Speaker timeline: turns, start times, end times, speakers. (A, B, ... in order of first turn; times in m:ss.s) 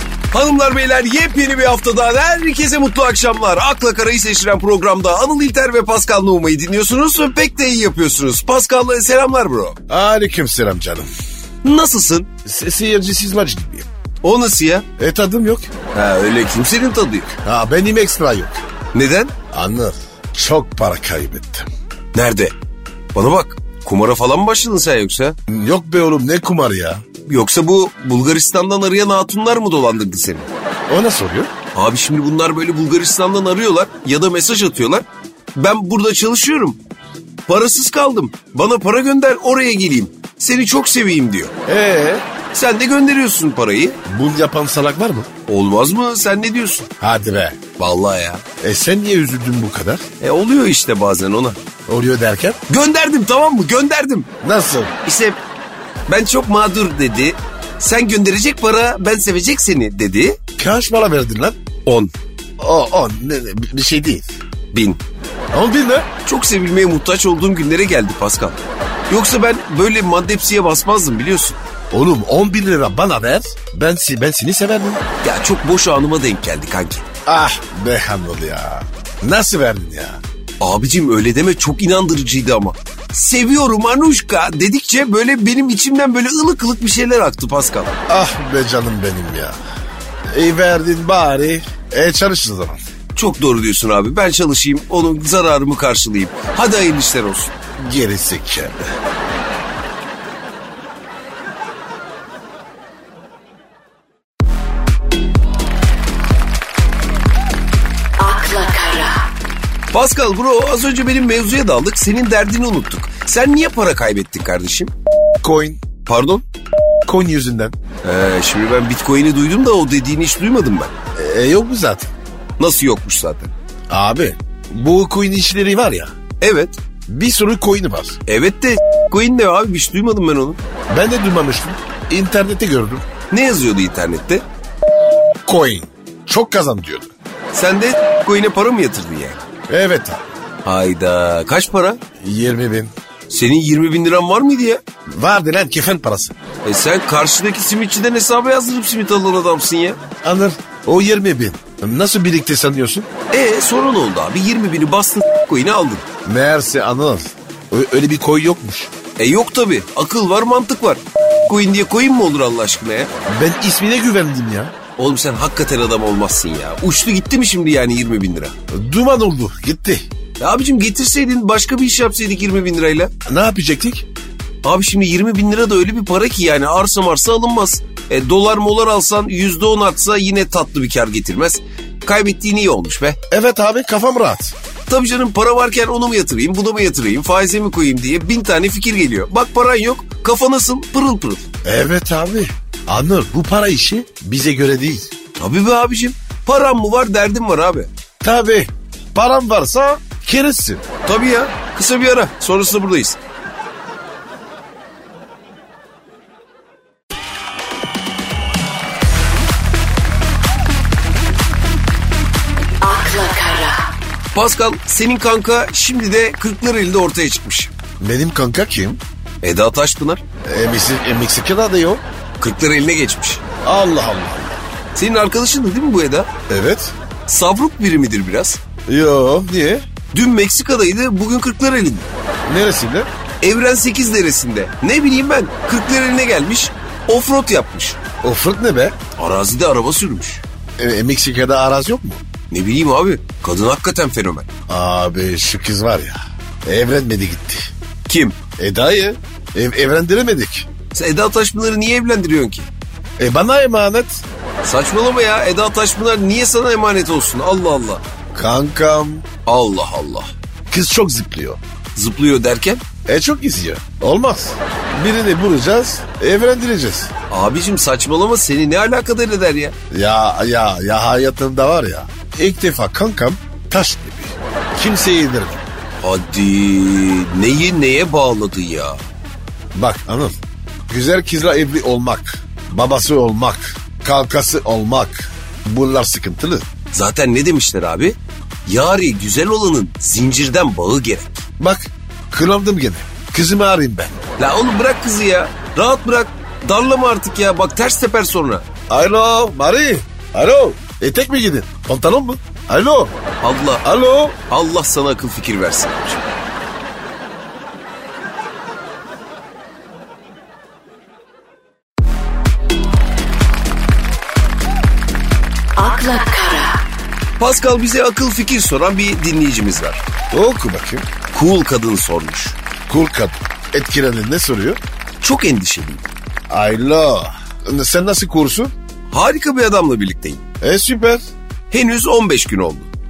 0:00.3-0:09.8 A
0:09.9-0:11.1 B
0:11.6-0:12.3 A
0:12.4-0:13.9 B
0:14.2-0:14.8 A
0:15.0-0:15.7 B
0:15.9-0:17.3 A
0:17.4-0:18.6 B
0:18.9-0:19.3 A
0:19.5-0:21.7 B
0:22.1-0:22.5 A
0:23.1-0:25.4 A
0:25.5-0:27.0 B
0:27.2-0:30.5 A
0:30.9-0:31.5 B
0:31.7-0:36.8 A
0:37.5-0:41.5 A
0:41.6-0:42.3 B
0:42.4-0:44.0 A
0:44.0-0:45.3 B
0:45.5-0:46.9 A
0:47.0-0:47.6 B
0:47.8-0:48.4 A
0:48.6-0:50.0 B
0:50.2-0:51.6 A
0:51.9-0:52.6 B
0:52.7-0:54.3 A
0:54.4-0:54.9 B
0:55.0-0:55.4 A
0:56.1-1:00.4 A
1:00.6-1:01.6 B
1:01.8-1:02.1 A
1:02.6-1:04.3 B
1:04.7-1:05.0 A
1:05.5-1:06.1 B
1:06.2-1:11.6 A
1:11.9-1:15.0 B
1:15.2-1:17.0 A
1:17.2-1:20.2 B
1:20.6-1:27.9 A
1:28.1-1:29.6 B
1:30.3-1:32.8 B
1:33.1-1:37.5 A
1:37.8-1:38.8 B
1:48.2-1:49.1 C
1:49.9-1:54.9 A
1:55.4-1:55.8 B
1:56.0-1:56.4 A
1:57.0-1:57.7 B
1:58.0-2:00.9 A
2:01.1-2:02.1 B
2:02.6-2:03.5 A
2:03.9-2:06.1 B
2:06.4-2:06.8 A
2:07.1-2:08.2 B
2:08.2-2:10.6 A
2:10.9-2:13.0 B
2:13.3-2:14.4 A
2:15.4-2:17.1 B
2:17.5-2:19.4 A
2:19.7-2:20.3 B
2:20.6-2:22.0 A
2:22.2-2:22.9 B
2:23.3-2:24.8 A
2:25.1-2:26.3 B
2:26.6-2:30.0 A
2:30.2-2:33.1 B
2:33.3-2:36.0 A
2:36.2-2:38.9 B
2:39.2-2:43.1 A
2:43.3-2:44.7 B
2:45.0-2:48.5 A
2:48.7-2:50.0 B
2:50.4-2:53.1 A
2:53.2-2:54.0 B
2:54.6-3:03.2 A
3:03.3-3:04.5 B
3:04.9-3:11.4 A
3:11.6-3:15.1 B
3:15.4-3:17.9 A
3:18.2-3:20.8 B
3:21.0-3:23.2 A
3:32.8-3:33.8 C
3:34.3-3:37.7 A
3:38.0-3:39.0 B
3:39.4-3:40.2 A
3:40.4-3:42.0 B
3:42.4-3:43.4 A
3:43.6-3:44.6 B
3:44.9-3:46.3 A
3:46.5-3:46.9 B
3:47.3-3:48.6 A
3:48.9-3:49.8 B
3:50.1-3:52.1 A
3:52.4-3:53.1 B
3:53.4-3:58.0 A
3:58.2-3:58.9 B
3:59.2-4:00.4 A
4:00.8-4:02.2 B
4:02.5-4:04.5 A
4:04.7-4:07.7 B
4:08.1-4:08.4 A
4:08.6-4:10.7 B
4:10.9-4:12.7 A
4:13.2-4:14.2 B
4:14.6-4:18.0 A
4:18.3-4:19.2 B
4:19.4-4:20.3 A
4:20.7-4:21.6 B
4:21.9-4:22.8 A
4:23.0-4:27.1 B
4:27.3-4:29.7 A
4:29.9-4:35.6 B
4:36.0-4:39.0 A
4:39.7-4:40.4 B
4:40.9-4:46.7 B
4:46.9-4:51.4 A
4:51.6-4:54.2 B
4:54.4-4:58.6 A
4:58.9-5:03.1 B
5:03.4-5:03.8 A
5:03.8-5:04.4 B
5:04.5-5:06.3 A
5:15.8-5:16.8 C
5:17.4-5:20.0 A
5:20.3-5:21.0 B
5:21.3-5:22.6 A
5:22.9-5:24.8 B
5:25.2-5:26.1 A
5:26.5-5:28.7 B
5:29.1-5:30.4 A
5:30.6-5:31.2 B
5:31.7-5:32.9 A